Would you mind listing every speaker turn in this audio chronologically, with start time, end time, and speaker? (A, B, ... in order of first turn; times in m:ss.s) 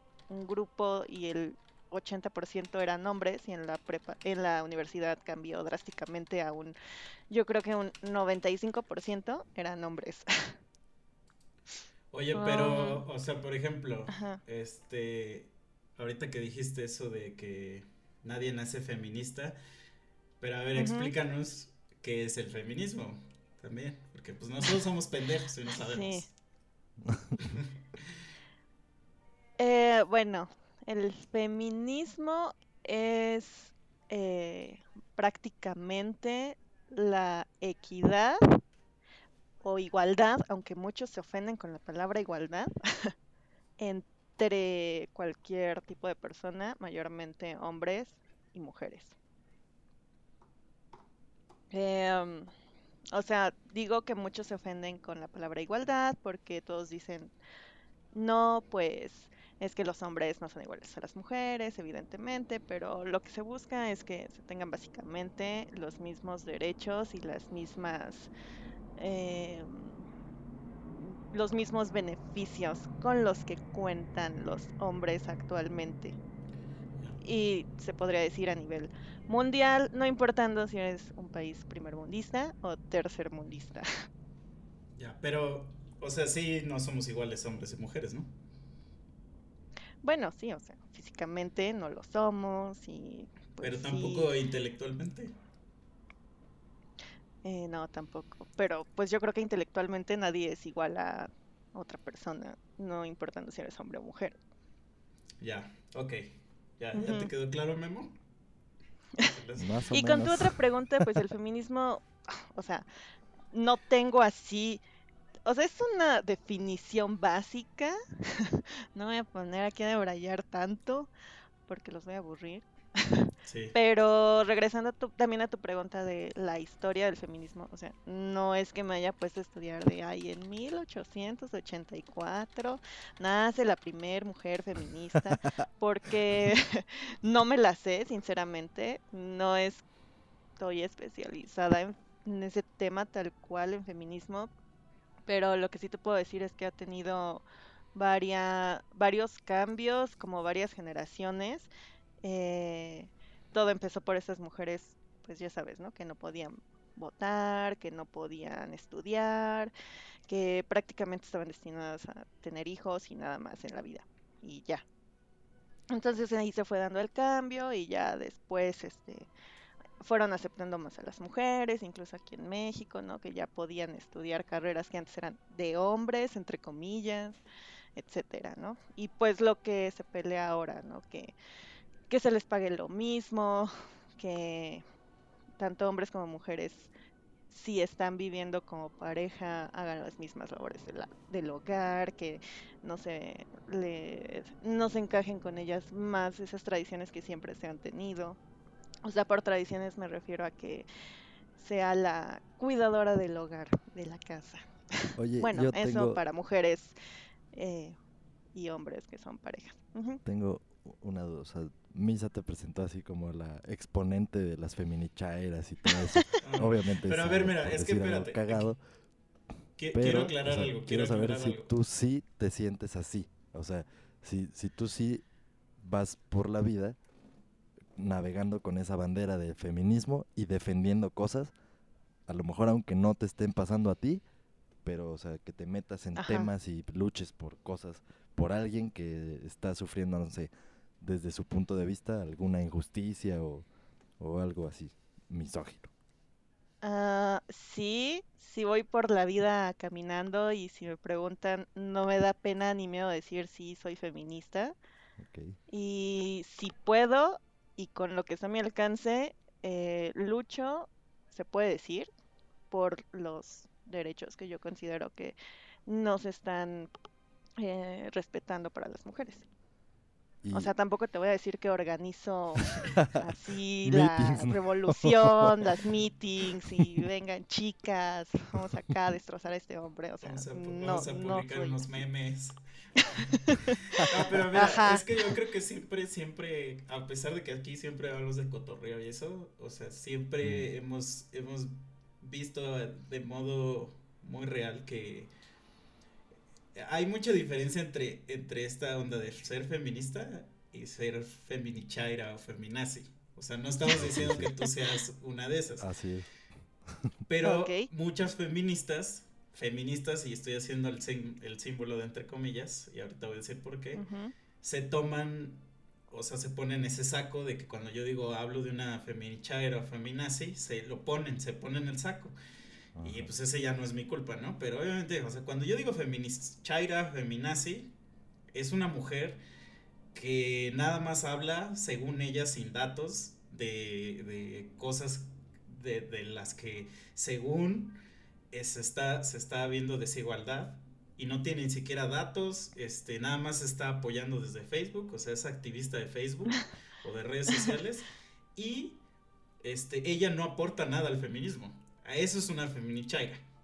0:00.3-0:06.8 A
0:07.3-0:10.5 A
0:12.1-0:19.6 B
0:12.4-0:13.0 A
0:14.1-0:14.4 A
0:20.4-0:26.3 B
0:20.8-0:21.1 A
0:25.8-0:26.3 A
0:27.0-0:27.4 C
0:29.6-0:38.4 A
0:39.6-0:43.1 A
0:43.8-0:49.2 A
0:51.7-0:52.5 A
0:53.1-0:57.3 A
0:58.1-1:08.3 A
1:09.0-1:10.0 A
1:11.0-1:16.2 A
1:17.2-1:23.9 A
1:25.0-1:28.3 B
1:30.0-1:34.3 A
1:33.6-1:35.3 B
1:37.4-1:44.4 A
1:45.4-1:48.2 B
1:46.9-1:47.3 A
1:49.2-1:49.8 B
1:49.6-1:50.6 C
1:49.9-1:52.9 A
1:53.5-1:54.8 A
1:55.5-2:01.1 A
2:01.7-2:19.8 A
2:03.5-2:03.8 B
2:20.6-2:24.5 A
2:25.3-2:31.7 A
2:32.2-2:39.7 A
2:40.3-2:44.8 A
2:45.9-2:49.3 A
2:50.0-2:57.4 A
2:58.0-3:01.3 A
3:02.1-3:04.8 A
3:05.6-3:06.9 A
3:07.5-3:18.4 A
3:19.0-3:20.9 A
3:21.6-3:27.0 A
3:25.2-3:26.2 C
3:27.5-3:28.0 A
3:28.6-3:30.2 A
3:30.2-3:38.8 C
3:35.9-3:36.4 A
3:36.4-3:38.7 B
3:39.8-3:41.7 B
3:39.9-3:45.2 C
3:45.8-3:47.0 C
3:48.0-3:51.5 C
3:52.3-3:54.2 C
3:54.8-4:03.7 C
3:56.2-3:56.5 A
4:04.2-4:05.9 C
4:06.8-4:14.8 A
4:15.2-4:15.6 C
4:15.7-4:22.1 A
4:22.7-4:26.9 A
4:27.6-4:29.5 A
4:30.4-4:30.7 C
4:30.5-4:41.8 A
4:33.8-4:35.7 C
4:40.2-4:55.3 B
4:43.3-4:44.0 A
4:44.5-4:45.0 A
4:56.8-5:05.9 B
5:03.9-5:04.5 C
5:05.8-5:06.3 C
5:06.8-5:07.1 C
5:07.3-5:14.0 B
5:07.4-5:07.9 A
5:14.0-5:14.3 A
5:14.6-5:22.4 B
5:23.0-5:23.3 C
5:23.0-5:27.9 B
5:28.5-5:29.4 B
5:30.1-5:38.0 B
5:38.5-5:49.0 B
5:49.6-5:53.4 B